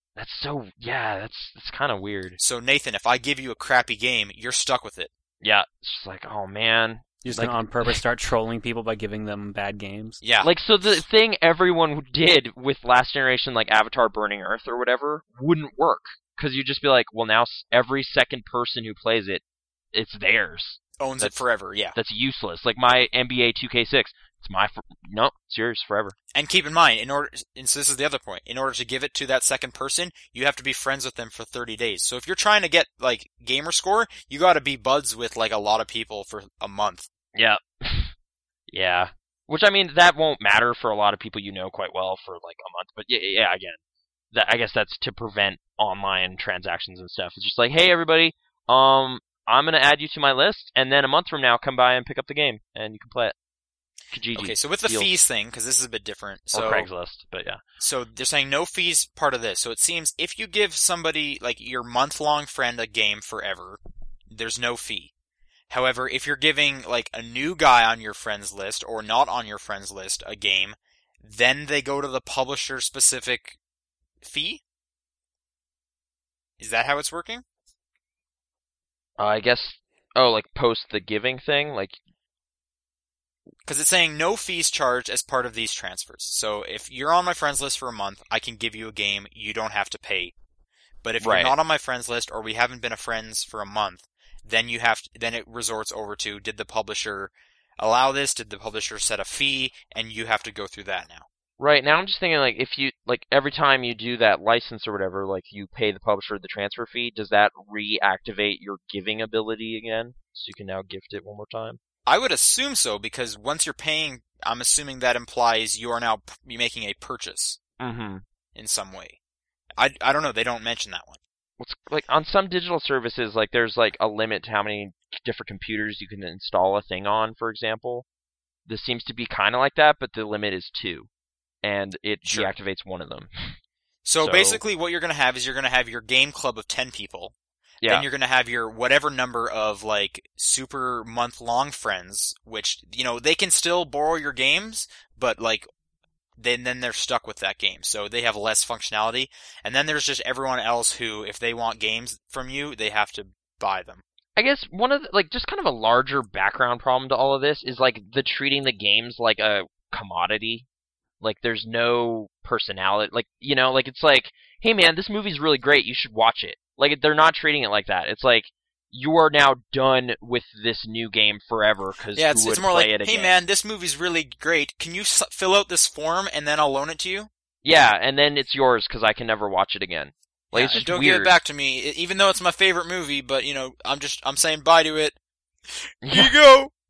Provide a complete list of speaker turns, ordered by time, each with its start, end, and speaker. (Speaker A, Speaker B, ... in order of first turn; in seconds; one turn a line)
Speaker A: 0.1-2.4
Speaker B: 2.4-5.1
Speaker A: 5.4-8.0
Speaker C: 7.2-10.2
Speaker B: 10.2-10.5
Speaker A: 10.4-21.4
Speaker B: 21.0-21.9
Speaker A: 21.9-26.1
Speaker B: 26.3-37.1
Speaker A: 37.3-38.1
Speaker A: 38.7-43.8
Speaker A: 44.3-53.3
Speaker A: 54.1-55.2
Speaker B: 54.3-56.9
Speaker A: 56.5-57.6
Speaker B: 57.8-65.1
Speaker B: 65.7-73.6
Speaker B: 74.2-74.6
Speaker B: 76.6-77.4
Speaker A: 79.2-82.0
Speaker B: 83.7-90.3
Speaker B: 91.0-101.2
Speaker A: 91.2-91.5
Speaker A: 101.6-111.8
Speaker B: 112.1-117.6
Speaker A: 117.8-118.2
Speaker B: 118.5-119.2
Speaker B: 119.8-121.2
Speaker A: 121.6-128.1
Speaker A: 128.7-131.1
Speaker A: 131.6-133.6
Speaker B: 132.2-132.5
Speaker B: 134.0-137.3
Speaker A: 134.2-134.6
Speaker A: 137.8-138.1
Speaker B: 137.8-145.7
Speaker B: 146.4-154.0
Speaker A: 154.3-160.7
Speaker A: 161.2-173.4
Speaker B: 172.1-177.3
Speaker A: 177.6-181.3
Speaker B: 180.5-185.2
Speaker B: 185.9-186.7
Speaker A: 186.0-186.3